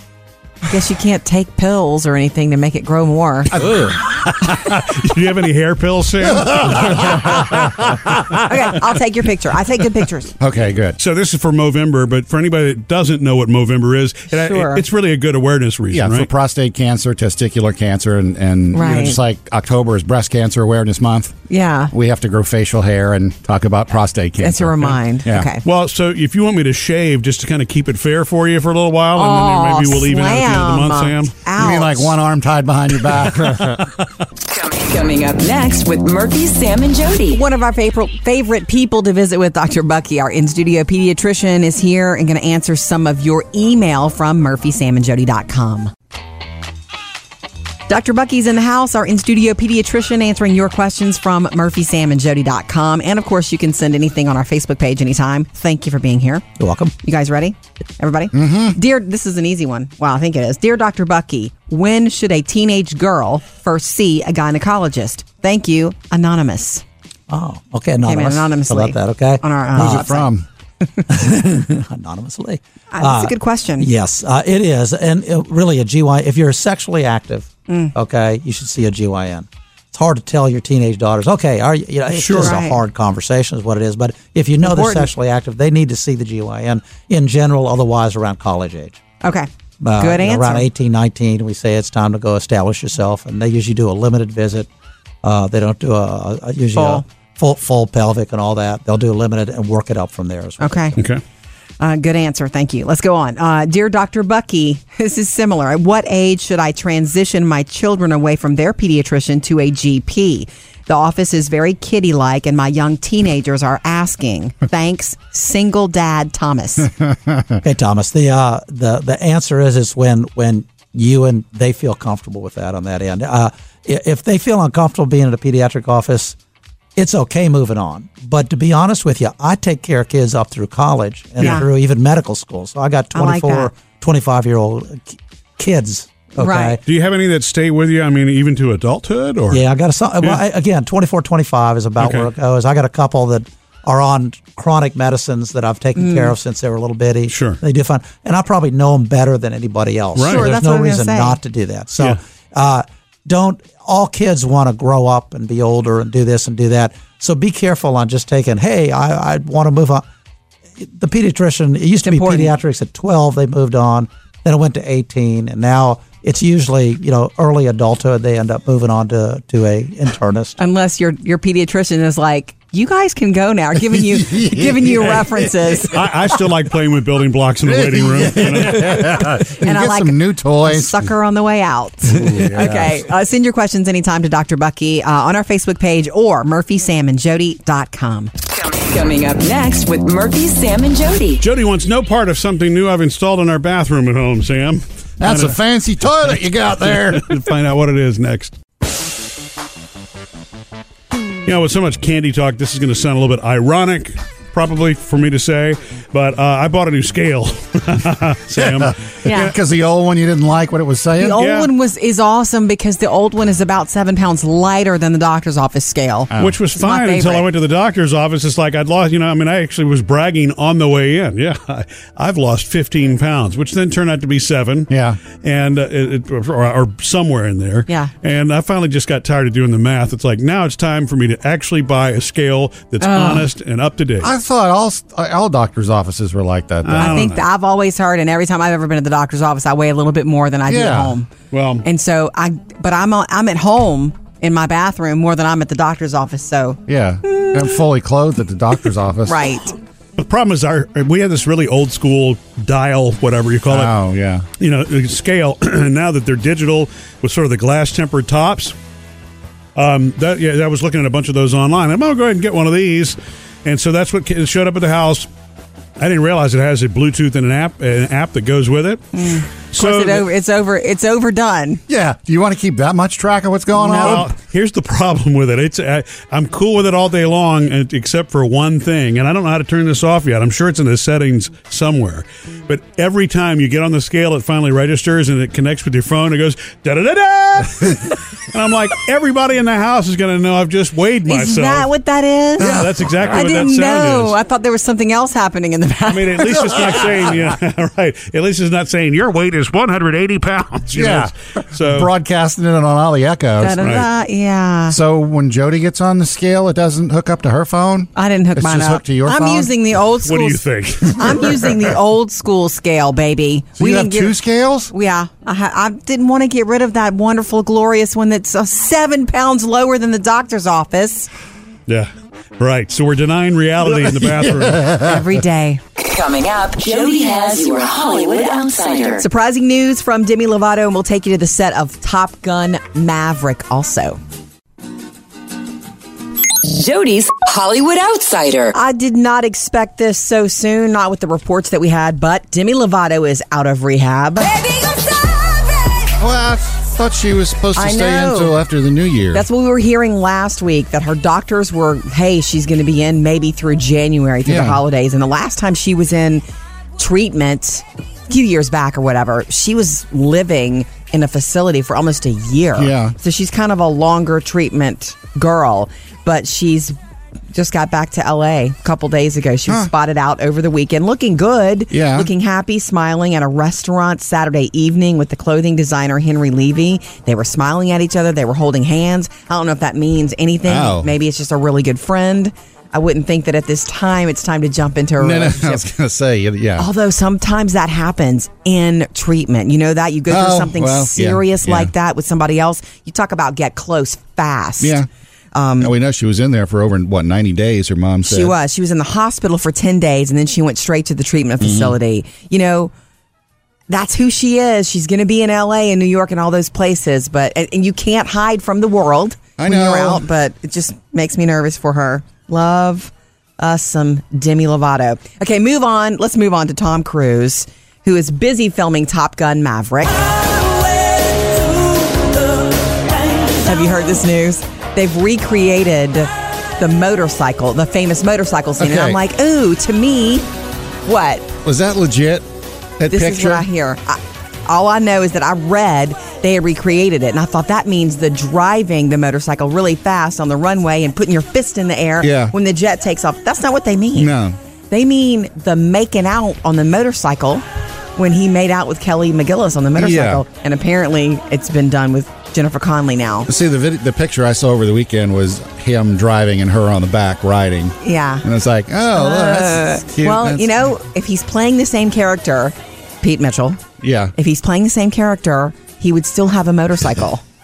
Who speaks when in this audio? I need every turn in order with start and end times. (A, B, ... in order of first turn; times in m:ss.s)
0:00.7-0:03.6 A
0:03.5-0:04.7 B
0:04.6-0:07.4 C
0:06.4-0:08.4 B
0:08.4-0:10.3 A
0:10.4-0:11.0 B
0:11.0-0:16.3 C
0:14.4-0:14.8 A
0:15.9-0:21.4 B
0:18.7-0:19.2 A
0:21.5-0:21.9 A
0:21.9-0:25.5 B
0:24.4-0:25.6 A
0:25.6-0:31.3 C
0:29.2-0:32.2 A
0:31.6-0:33.8 B
0:34.4-0:37.4 D
0:37.3-0:45.9 A
0:47.9-0:56.5 A
0:56.6-0:56.9 E
0:57.0-1:06.8 A
0:58.3-0:58.8 B
1:07.3-1:10.3 E
1:08.0-1:10.3 A
1:09.8-1:10.5 B
1:11.1-1:29.0 E
1:12.9-1:13.9 A
1:17.7-1:17.9 A
1:22.1-1:22.6 C
1:22.4-1:22.8 A
1:24.6-1:25.1 A
1:29.2-1:30.7 A
1:29.8-1:34.7 E
1:35.2-1:40.9 E
1:36.8-1:37.0 A
1:40.6-1:41.0 A
1:41.8-1:56.9 A
1:56.9-1:57.6 B
1:57.6-2:06.4 E
2:07.0-2:16.8 E
2:11.4-2:11.7 A
2:13.1-2:13.7 A
2:16.4-2:16.8 A
2:16.9-2:19.6 C
2:19.5-2:40.1 E
2:22.0-2:22.3 C
2:26.0-2:26.3 A
2:27.3-2:27.6 C
2:30.2-2:30.5 C
2:30.2-2:31.4 A
2:40.8-2:50.6 E
2:42.0-2:42.5 A
2:50.6-2:56.0 A
2:53.9-2:55.5 B
2:55.9-2:59.3 C
2:57.7-3:01.1 B
2:59.5-3:08.3 A
3:02.1-3:03.0 B
3:08.5-3:11.4 D
3:11.4-3:15.6 C
3:15.2-3:17.4 B
3:16.8-3:18.6 C
3:21.4-3:29.0 C
3:28.6-3:31.6 B
3:29.2-3:29.5 A
3:31.2-3:37.5 A
3:31.4-3:31.7 C
3:36.3-3:36.6 B
3:36.4-3:54.3 C
3:44.9-3:45.2 B
3:53.0-3:53.5 A
3:54.2-3:57.4 B
3:56.8-3:57.4 C
3:57.0-4:01.3 A
4:00.7-4:01.1 B
4:01.5-4:01.8 C
4:01.8-4:07.6 A
4:06.9-4:09.5 B
4:09.3-4:09.7 A
4:10.2-4:14.0 C
4:13.7-4:14.5 B
4:14.6-4:18.8 C
4:19.8-4:25.3 C
4:26.0-4:30.3 C
4:29.1-4:31.8 A
4:31.9-4:34.3 B
4:33.8-4:34.3 A
4:34.0-4:51.9 C
4:51.3-4:57.0 A
4:52.6-4:54.4 C
4:52.6-4:53.1 B
4:56.1-5:02.1 C
5:00.9-5:03.9 B
5:03.6-5:05.0 A
5:03.8-5:04.1 C
5:04.9-5:09.7 B
5:08.2-5:14.4 A
5:10.2-5:11.7 C
5:13.8-5:14.9 B
5:14.9-5:21.3 A
5:21.9-5:24.9 C
5:23.9-5:25.4 B
5:25.0-5:25.8 A
5:26.0-5:29.2 D
5:29.2-5:34.2 A
5:36.6-5:38.8 D
5:38.7-5:44.5 A
5:44.5-5:46.1 D
5:46.2-5:49.5 B
5:47.8-5:48.6 A
5:49.3-5:56.4 A
5:54.5-5:54.8 B
5:57.0-6:07.0 A
6:02.8-6:03.2 B
6:07.5-6:25.9 A
6:11.9-6:12.3 B
6:20.6-6:21.1 B
6:25.2-6:26.9 B
6:26.8-6:35.0 A
6:30.3-6:31.9 B
6:34.8-6:35.1 B
6:35.5-6:35.9 A
6:35.8-6:38.5 B
6:38.3-6:42.9 A
6:41.6-6:42.0 B
6:43.9-7:00.3 A
6:49.6-6:50.3 B
7:03.5-7:10.5 A
7:08.8-7:09.2 B
7:11.1-7:11.5 A
7:11.6-7:12.5 B
7:13.0-7:13.7 B
7:13.1-7:24.3 A
7:22.2-7:22.5 B
7:24.2-7:24.6 B
7:24.9-7:27.6 A
7:28.2-7:33.5 A
7:30.0-7:30.4 B
7:33.5-7:40.9 B
7:38.0-7:38.4 A
7:39.1-7:43.8 A
7:44.0-7:44.3 B
7:44.4-7:47.4 A